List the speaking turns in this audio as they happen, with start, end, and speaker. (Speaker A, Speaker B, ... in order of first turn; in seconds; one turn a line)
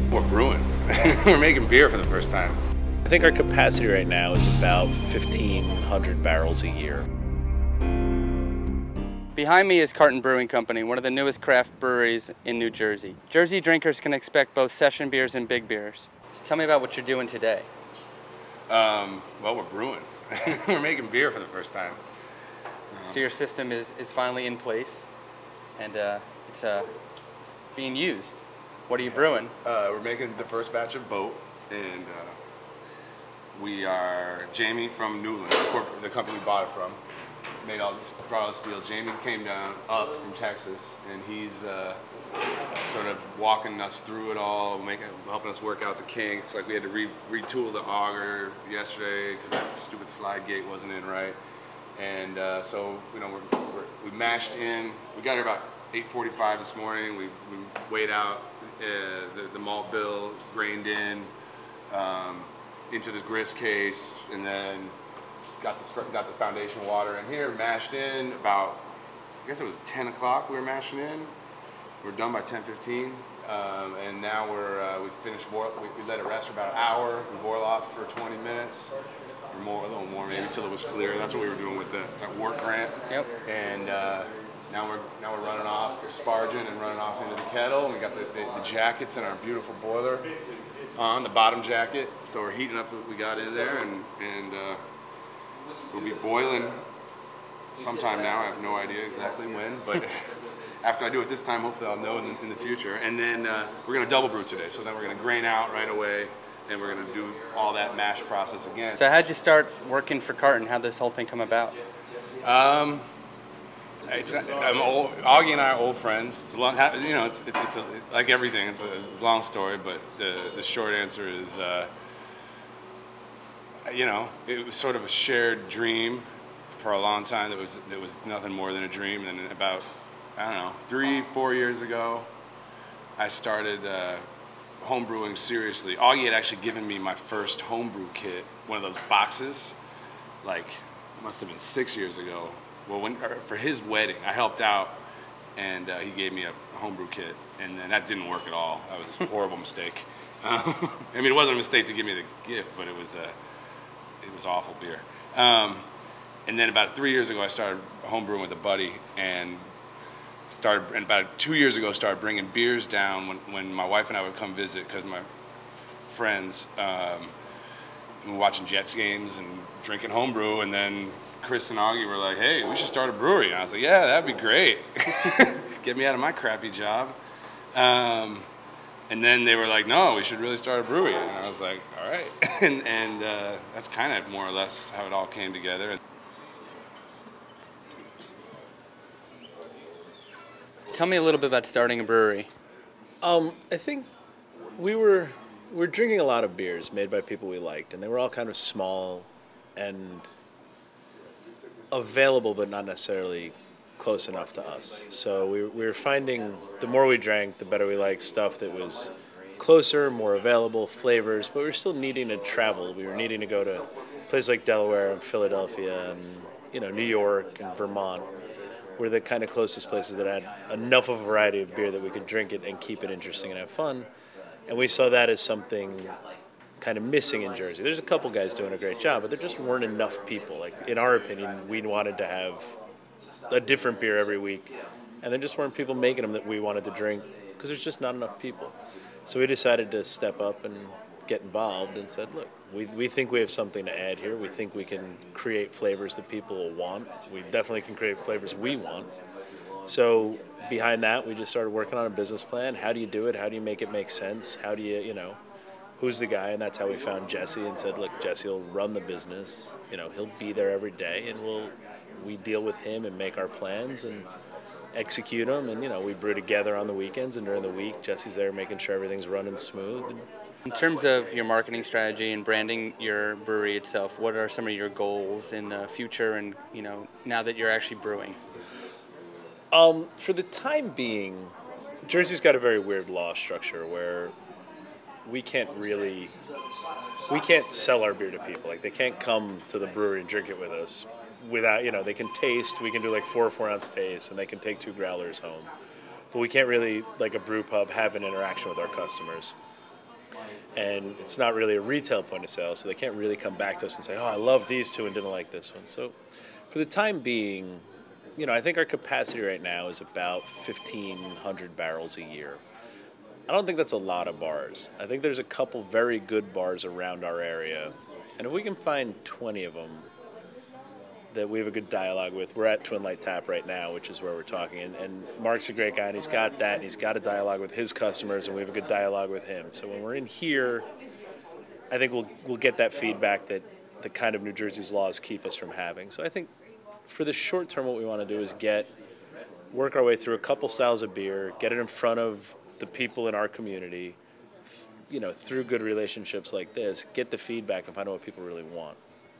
Speaker A: 0.1-2.6
Speaker B: 3.0-7.1
Speaker C: 9.3-17.7
Speaker A: 18.7-22.0
Speaker A: 22.9-23.2
Speaker C: 23.1-25.1
Speaker C: 25.8-26.9
Speaker C: 27.7-29.5
Speaker A: 29.6-32.4
Speaker A: 33.5-37.0
Speaker A: 37.6-42.0
Speaker A: 42.8-51.4
Speaker A: 52.0-61.3
Speaker A: 61.9-64.9
Speaker A: 65.6-68.8
Speaker A: 69.4-71.3
Speaker A: 72.0-78.9
Speaker A: 79.5-90.3
Speaker C: 83.1-83.3
Speaker A: 90.9-94.8
Speaker A: 95.8-96.8
Speaker A: 97.8-109.0
Speaker C: 109.0-111.8
Speaker A: 112.4-113.1
Speaker A: 114.0-121.9
Speaker A: 123.9-132.3
Speaker A: 133.2-134.2
Speaker A: 134.8-139.8
Speaker A: 140.4-145.0
Speaker A: 145.6-153.3
Speaker A: 154.2-155.8
Speaker A: 156.5-159.6
Speaker A: 160.5-165.2
Speaker A: 166.0-167.3
Speaker A: 168.2-177.2
Speaker A: 177.7-178.5
Speaker A: 179.1-186.0
Speaker C: 190.9-192.5
Speaker B: 193.2-194.1
Speaker B: 194.8-200.3
Speaker B: 201.9-218.3
Speaker B: 219.0-224.1
Speaker B: 224.7-226.2
Speaker B: 226.8-232.8
Speaker B: 233.5-249.1
Speaker B: 249.8-255.4
Speaker B: 256.0-264.3
Speaker B: 264.9-270.2
Speaker C: 270.7-278.4
Speaker B: 279.7-281.5
Speaker B: 282.0-284.3
Speaker B: 285.2-286.3
Speaker B: 287.3-295.7
Speaker B: 296.3-299.5
Speaker B: 300.8-306.2
Speaker B: 306.7-307.8
Speaker B: 308.4-312.6
Speaker B: 313.5-320.1
Speaker B: 321.3-330.9
Speaker B: 331.9-336.5
Speaker B: 337.1-338.9
Speaker B: 339.7-349.0